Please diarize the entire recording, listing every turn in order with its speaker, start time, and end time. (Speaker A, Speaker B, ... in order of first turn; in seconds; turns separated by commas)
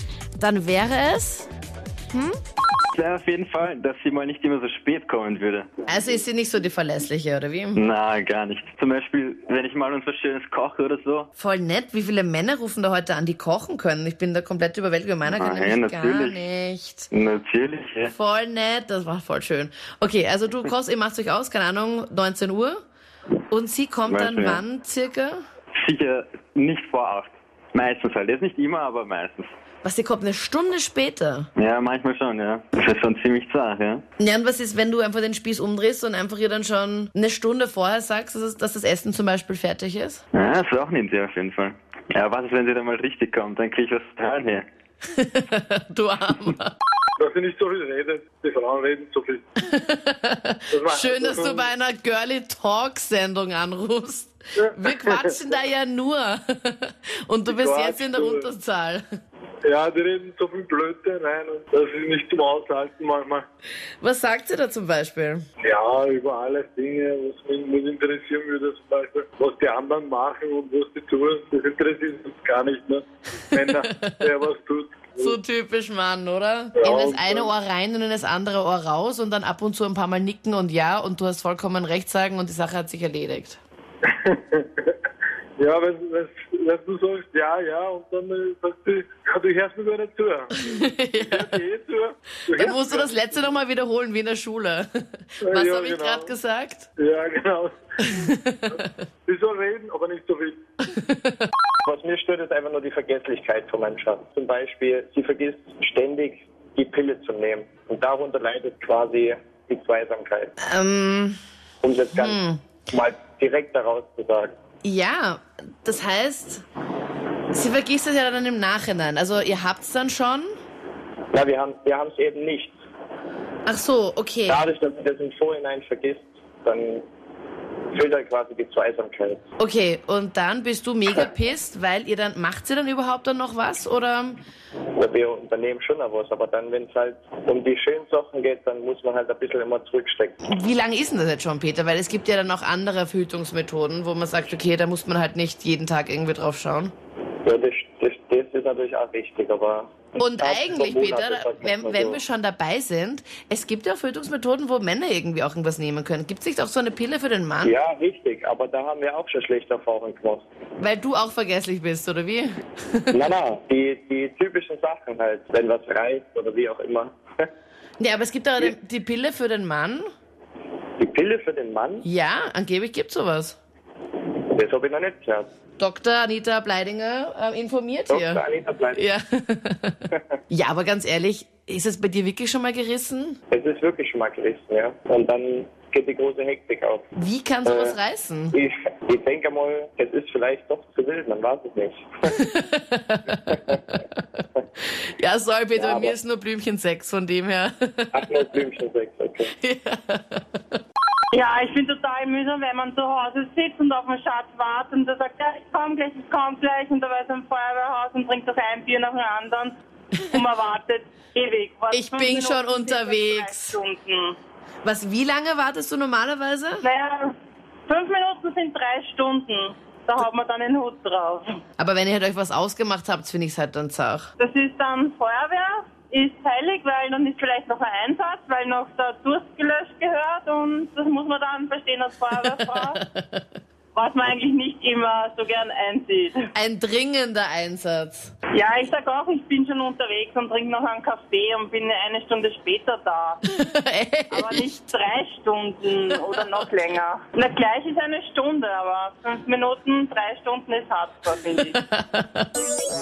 Speaker A: 0.4-1.5, Speaker A: 2.1-2.4, Speaker B: 2.9-5.7, Speaker A: 5.8-7.8, Speaker B: 7.8-11.3, Speaker A: 11.4-17.1, Speaker B: 15.3-16.3, Speaker B: 17.1-18.1, Speaker A: 18.0-22.8, Speaker A: 23.5-25.4, Speaker B: 24.1-24.6, Speaker B: 25.7-29.5, Speaker A: 29.8-31.5, Speaker B: 31.6-34.0, Speaker A: 34.2-40.2, Speaker B: 40.3-44.6, Speaker A: 45.1-46.7, Speaker C: 47.2-49.4, Speaker A: 49.6-59.0, Speaker C: 50.7-51.7, Speaker C: 54.6-55.2, Speaker C: 57.5-58.5, Speaker C: 59.6-63.5, Speaker A: 64.0-65.5, Speaker C: 65.6-75.4, Speaker A: 73.8-74.2, Speaker A: 75.2-83.6, Speaker C: 76.7-77.5, Speaker C: 84.0-84.9, Speaker C: 85.6-93.2, Speaker A: 90.6-91.5, Speaker A: 92.5-96.9, Speaker C: 95.4-96.3, Speaker C: 97.0-98.2, Speaker A: 98.0-98.9, Speaker C: 99.3-100.6, Speaker A: 100.8-101.3, Speaker D: 101.8-110.5, Speaker A: 110.6-111.4, Speaker D: 111.8-114.5, Speaker A: 112.2-112.6, Speaker A: 114.8-116.7, Speaker A: 117.5-120.5, Speaker D: 121.3-122.8, Speaker A: 123.7-124.6, Speaker D: 124.5-127.0, Speaker D: 127.9-129.4, Speaker A: 129.6-134.4, Speaker D: 135.0-140.4, Speaker A: 140.4-146.9, Speaker D: 147.4-152.2, Speaker A: 150.2-157.8, Speaker D: 157.6-160.4, Speaker A: 160.8-163.1, Speaker D: 163.1-167.4, Speaker A: 168.0-170.0, Speaker D: 171.0-172.1, Speaker A: 172.0-173.6, Speaker D: 174.5-175.5, Speaker A: 175.8-178.4, Speaker D: 178.1-179.0, Speaker A: 178.9-183.4, Speaker D: 183.5-187.1, Speaker A: 187.2-188.5, Speaker D: 187.6-187.9, Speaker D: 188.5-192.1, Speaker A: 192.3-193.6, Speaker A: 195.2-198.2, Speaker D: 195.8-196.1, Speaker D: 198.1-199.5, Speaker A: 199.6-200.4, Speaker E: 201.3-209.7, Speaker E: 210.3-214.3, Speaker A: 211.9-213.8, Speaker A: 214.8-216.8, Speaker E: 216.8-217.3, Speaker E: 217.9-221.6, Speaker A: 221.8-224.3, Speaker E: 224.4-233.0, Speaker A: 232.7-233.4, Speaker E: 233.9-236.4, Speaker A: 236.5-238.3, Speaker E: 238.5-243.4, Speaker A: 243.5-244.6, Speaker E: 244.3-251.8, Speaker A: 251.8-252.5